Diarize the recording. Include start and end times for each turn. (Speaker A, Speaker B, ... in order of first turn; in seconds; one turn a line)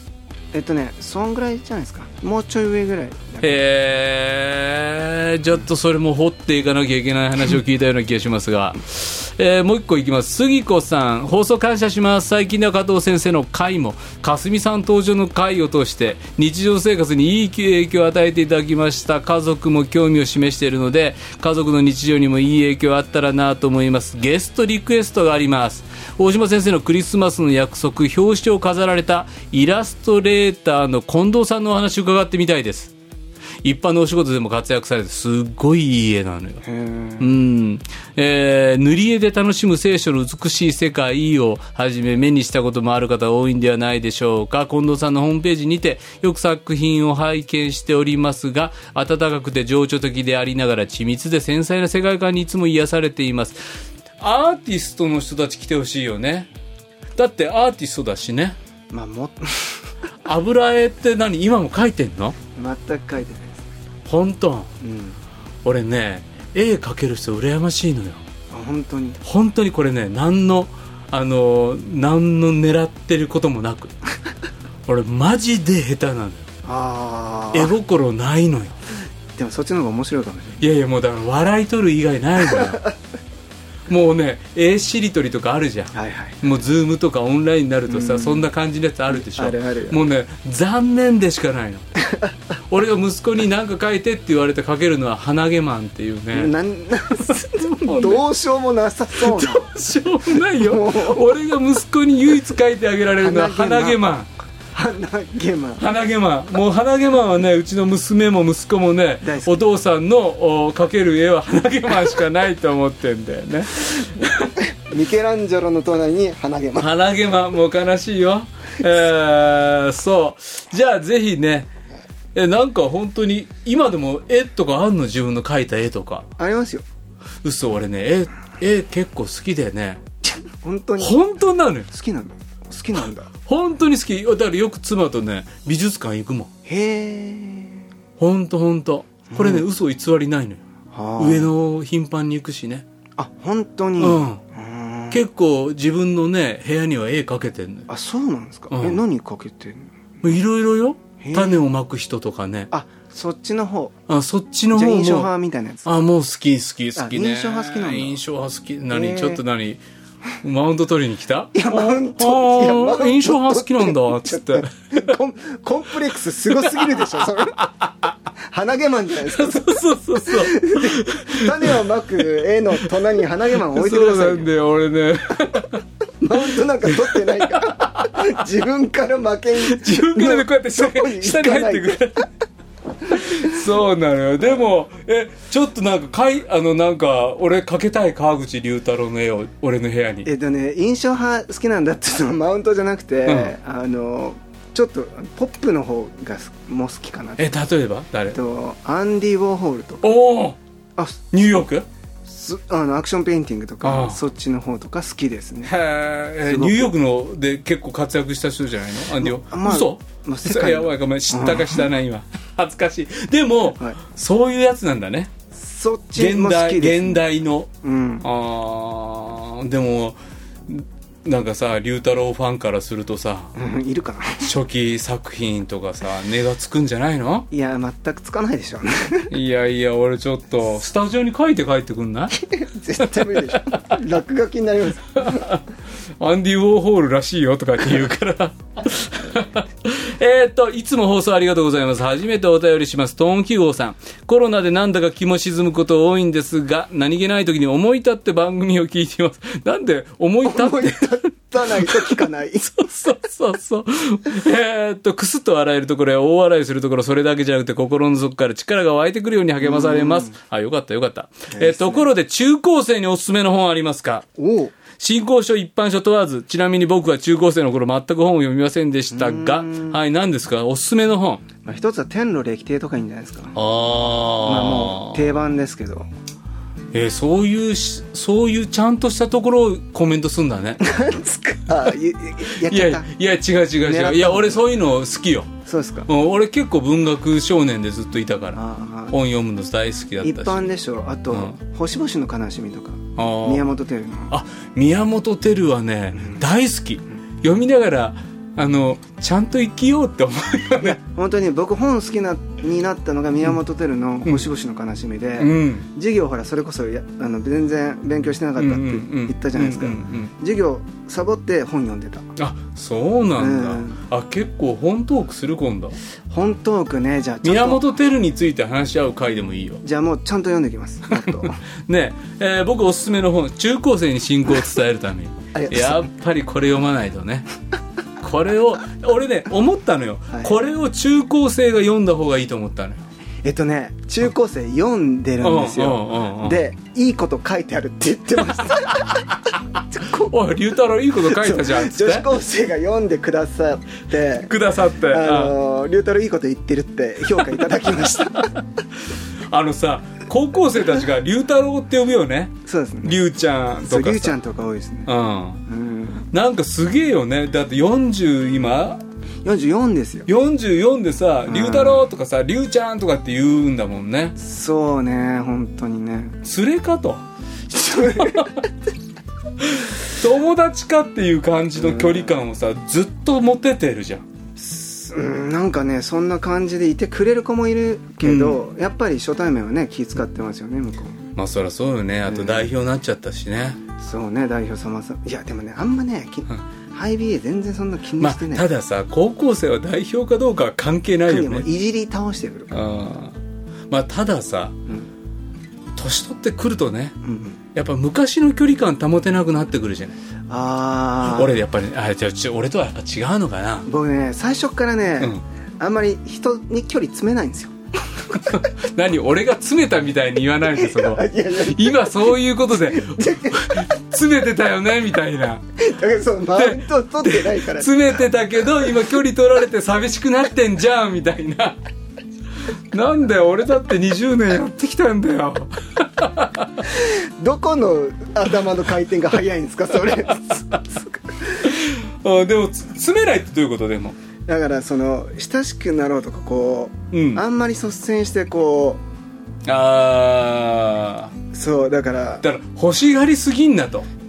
Speaker A: 0.5-3.6
Speaker B: 3.4-32.9
Speaker B: 33.6-36.6
Speaker A: 36.6-37.3
Speaker B: 37.2-56.5
Speaker B: 57.1-58.6
Speaker A: 58.9-59.9
Speaker B: 60.2-62.4
Speaker A: 62.5-63.7
Speaker B: 64.0-64.7
Speaker A: 64.8-65.2
Speaker B: 65.6-68.2
Speaker A: 68.5-69.2
Speaker B: 69.2-73.9
Speaker B: 74.8-76.5
Speaker A: 76.6-77.7
Speaker B: 77.5-78.8
Speaker A: 79.4-80.7
Speaker B: 80.6-82.8
Speaker A: 82.5-82.9
Speaker B: 83.9-91.9
Speaker A: 85.9-86.5
Speaker A: 87.9-88.5
Speaker A: 89.1-90.0
Speaker A: 92.0-92.3
Speaker B: 92.7-96.5
Speaker A: 96.3-99.7
Speaker B: 97.1-98.3
Speaker B: 99.2-104.3
Speaker A: 100.3-101.2
Speaker A: 103.2-104.0
Speaker A: 104.7-105.8
Speaker B: 105.8-114.5
Speaker A: 109.2-109.5
Speaker A: 114.6-116.9
Speaker B: 116.8-121.7
Speaker B: 122.3-126.3
Speaker A: 126.4-126.8
Speaker B: 127.4-130.0
Speaker A: 130.4-131.2
Speaker B: 131.0-131.9
Speaker A: 131.9-133.3
Speaker B: 133.4-136.5
Speaker A: 136.7-137.8
Speaker B: 138.2-140.6
Speaker A: 139.3-139.7
Speaker A: 140.9-141.5
Speaker B: 141.2-142.8
Speaker A: 143.2-145.2
Speaker B: 144.0-144.4
Speaker B: 145.1-147.9
Speaker A: 147.9-149.9
Speaker B: 148.7-149.0
Speaker B: 150.2-152.7
Speaker A: 151.2-151.6
Speaker A: 152.7-153.9
Speaker B: 154.1-155.3
Speaker A: 154.7-156.0
Speaker B: 155.8-159.8
Speaker A: 156.9-158.2
Speaker A: 158.9-159.4
Speaker B: 160.4-165.1
Speaker A: 161.5-167.7
Speaker B: 166.6-167.9
Speaker A: 168.5-174.4
Speaker B: 169.2-171.8
Speaker B: 173.6-178.4
Speaker A: 176.2-182.2
Speaker B: 179.6-182.2
Speaker A: 183.1-183.5
Speaker B: 183.1-190.3
Speaker A: 190.2-197.6
Speaker B: 193.2-193.5
Speaker B: 197.4-198.4
Speaker A: 198.3-200.1
Speaker B: 200.0-200.6
Speaker A: 201.0-201.3
Speaker B: 201.3-201.9
Speaker A: 202.2-205.7
Speaker B: 203.8-204.2
Speaker B: 205.6-215.3
Speaker A: 206.4-206.9
Speaker A: 209.2-211.9
Speaker A: 215.5-217.2
Speaker B: 216.2-217.7
Speaker A: 217.8-218.2
Speaker B: 218.2-223.5
Speaker A: 223.5-224.5
Speaker B: 224.4-227.5
Speaker A: 227.5-229.3
Speaker B: 229.3-232.4
Speaker A: 232.3-235.5
Speaker B: 233.0-233.8
Speaker B: 235.1-235.6
Speaker B: 236.2-251.1
Speaker A: 250.4-252.8
Speaker B: 251.7-264.2
Speaker A: 259.6-260.4
Speaker A: 261.5-262.1
Speaker A: 264.4-264.7
Speaker B: 265.0-271.4
Speaker A: 269.1-270.0
Speaker A: 271.6-273.6
Speaker B: 273.5-275.4
Speaker A: 274.4-276.1
Speaker B: 276.9-280.8
Speaker A: 280.8-283.1
Speaker B: 282.6-285.6
Speaker A: 283.8-284.6
Speaker A: 285.6-286.1
Speaker B: 286.1-290.7
Speaker A: 288.5-289.1
Speaker A: 290.2-294.3
Speaker B: 293.1-293.7
Speaker B: 294.3-301.0
Speaker A: 296.1-296.4
Speaker A: 300.8-312.3
Speaker B: 305.4-305.9
Speaker B: 308.6-310.3
Speaker B: 312.4-316.0
Speaker A: 313.4-314.0
Speaker A: 316.3-317.9
Speaker B: 317.4-319.8
Speaker A: 319.8-321.6
Speaker B: 321.1-327.5
Speaker A: 325.5-326.1
Speaker B: 328.2-333.0
Speaker A: 333.4-339.3
Speaker B: 335.4-336.6
Speaker A: 339.9-340.4
Speaker B: 340.1-342.3
Speaker A: 341.2-344.5
Speaker B: 344.4-345.5
Speaker A: 345.1-348.6
Speaker B: 347.4-348.5
Speaker B: 349.5-354.4
Speaker A: 352.6-353.2
Speaker A: 353.8-355.1
Speaker B: 355.1-355.6
Speaker A: 355.6-356.3
Speaker B: 356.3-359.0
Speaker A: 359.4-360.3
Speaker B: 360.3-364.3
Speaker A: 361.5-362.0
Speaker A: 364.4-366.4
Speaker B: 366.4-367.2
Speaker A: 367.7-368.7
Speaker B: 367.9-368.6
Speaker B: 369.6-374.2
Speaker A: 371.8-372.4
Speaker A: 374.6-381.3
Speaker B: 378.2-378.6
Speaker B: 381.4-383.8
Speaker A: 382.3-382.7
Speaker A: 383.9-388.6
Speaker B: 388.2-391.7
Speaker A: 391.3-392.8
Speaker B: 392.7-393.4
Speaker B: 393.9-394.8
Speaker B: 395.9-397.2
Speaker A: 397.2-397.6
Speaker B: 397.7-400.2
Speaker A: 400.5-401.6
Speaker B: 401.2-403.9
Speaker A: 403.9-407.7
Speaker B: 408.3-415.6
Speaker A: 410.7-413.8
Speaker A: 415.8-418.1
Speaker B: 416.5-421.8
Speaker B: 422.9-426.8
Speaker A: 426.9-431.7
Speaker B: 431.6-434.2
Speaker A: 434.4-439.0
Speaker B: 437.1-437.4
Speaker B: 439.6-441.3
Speaker A: 441.5-442.4
Speaker B: 442.4-444.1